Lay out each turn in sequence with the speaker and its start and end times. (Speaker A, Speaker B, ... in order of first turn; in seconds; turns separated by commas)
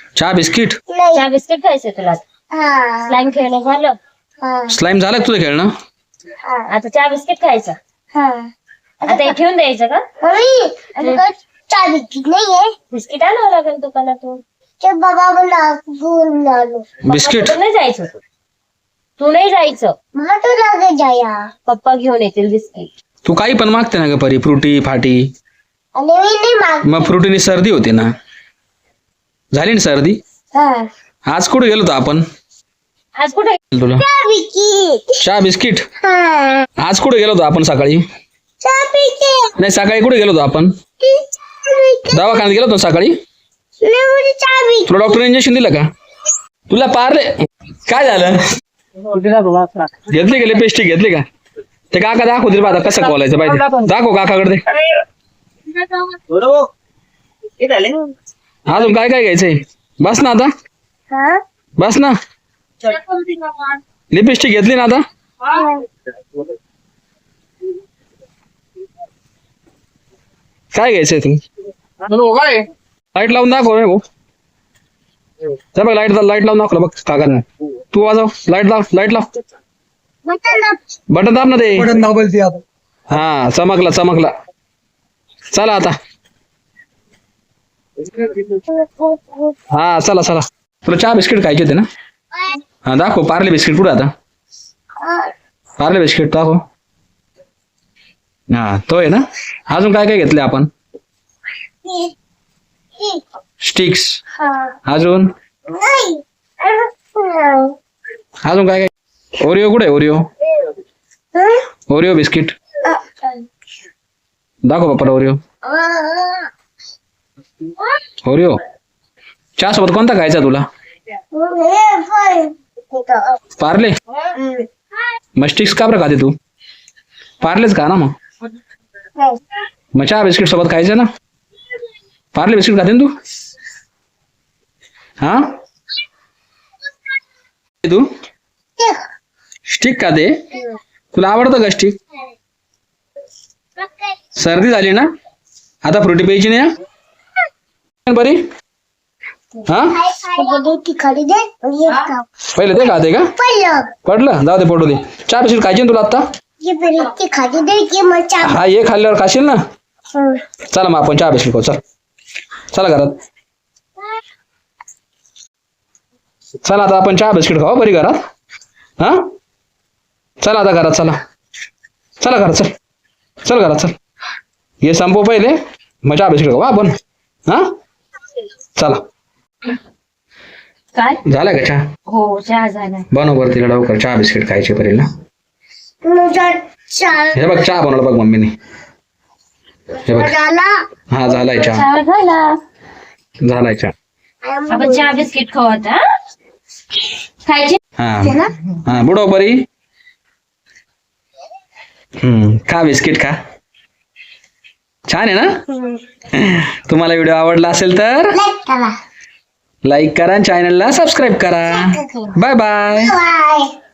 Speaker A: 0.2-0.8, Speaker B: 0.9-1.3, Speaker C: 1.1-2.2, Speaker B: 2.5-3.2, Speaker C: 3.1-4.0, Speaker B: 4.4-4.7, Speaker A: 4.7-5.7, Speaker C: 6.7-7.8, Speaker B: 8.1-8.4, Speaker B: 9.0-9.4, Speaker C: 9.1-10.0, Speaker B: 10.2-12.7, Speaker C: 12.9-14.4, Speaker B: 14.8-16.9, Speaker A: 17.1-17.6, Speaker C: 17.1-18.1, Speaker C: 19.2-19.9, Speaker B: 20.1-21.4, Speaker C: 21.7-22.9, Speaker A: 23.3-25.2, Speaker B: 26.0-27.1, Speaker A: 26.9-28.1, Speaker A: 29.5-30.2, Speaker B: 30.6-30.8, Speaker A: 31.3-32.2, Speaker C: 33.2-33.6, Speaker A: 33.7-34.0, Speaker B: 34.0-35.2, Speaker A: 35.2-35.9, Speaker B: 36.0-36.7, Speaker A: 36.8-38.0, Speaker B: 38.6-39.5, Speaker A: 39.6-40.7, Speaker B: 41.0-42.5, Speaker A: 42.1-43.1, Speaker B: 43.8-45.0, Speaker A: 44.9-45.9, Speaker A: 46.7-47.3, Speaker A: 47.9-48.4, Speaker D: 49.1-49.9, Speaker A: 50.1-51.2, Speaker A: 51.9-54.6, Speaker B: 57.8-58.1, Speaker A: 58.7-60.5, Speaker B: 61.1-61.4, Speaker A: 61.8-62.1, Speaker A: 64.1-65.0, Speaker B: 65.5-65.8, Speaker A: 70.7-71.4, Speaker D: 72.1-72.6, Speaker A: 73.2-74.0, Speaker A: 75.7-79.3, Speaker B: 80.3-80.8, Speaker A: 81.1-82.0, Speaker D: 81.9-82.6, Speaker A: 83.1-84.3, Speaker A: 85.5-85.9, Speaker B: 88.7-89.5, Speaker A: 89.7-91.9, Speaker A: 92.8-94.1, Speaker B: 95.0-95.3, Speaker A: 95.8-96.6, Speaker A: 98.5-100.7, Speaker B: 101.8-102.1, Speaker A: 103.6-104.2, Speaker B: 104.4-104.7, Speaker A: 104.9-105.3, Speaker B: 105.7-107.8, Speaker A: 108.5-110.3, Speaker A: 111.9-112.5, Speaker B: 112.8-113.4, Speaker A: 114.7-115.4, Speaker B: 115.7-116.5, Speaker A: 118.2-118.6, Speaker A: 119.6-120.7, Speaker B: 121.3-123.4, Speaker A: 123.6-123.9, Speaker B: 124.4-124.7, Speaker A: 125.4-126.3, Speaker A: 127.4-128.1, Speaker A: 129.9-131.1, Speaker A: 132.3-133.1, Speaker A: 139.7-140.3, Speaker A: 141.1-141.9, Speaker A: 144.4-145.1, Speaker A: 145.8-146.7, Speaker A: 148.1-148.4, Speaker A: 149.7-149.9, Speaker B: 149.9-152.2, Speaker A: 152.6-153.3, Speaker B: 153.4-153.8, Speaker A: 154.1-156.2, Speaker B: 156.6-158.6, Speaker A: 158.4-159.6, Speaker B: 160.1-160.4, Speaker A: 160.7-161.8, Speaker A: 162.7-163.2, Speaker A: 166.6-168.2, Speaker A: 170.4-171.2, Speaker A: 172.2-172.7, Speaker A: 173.4-173.9, Speaker A: 174.8-176.9, Speaker A: 181.3-181.8, Speaker C: 182.1-183.1, Speaker A: 183.1-185.1, Speaker B: 186.0-187.7, Speaker A: 187.3-188.5, Speaker A: 190.1-190.3, Speaker B: 190.1-190.7, Speaker A: 191.1-191.9, Speaker C: 191.4-192.6, Speaker A: 193.4-193.9, Speaker B: 194.4-195.3, Speaker C: 194.7-196.0, Speaker C: 197.5-197.8, Speaker A: 198.0-199.6, Speaker B: 198.2-198.5, Speaker A: 202.2-203.3, Speaker A: 205.1-205.6, Speaker B: 205.7-206.0, Speaker A: 206.3-208.4, Speaker B: 208.3-208.9, Speaker A: 209.8-213.1, Speaker B: 211.7-212.3, Speaker B: 212.9-213.7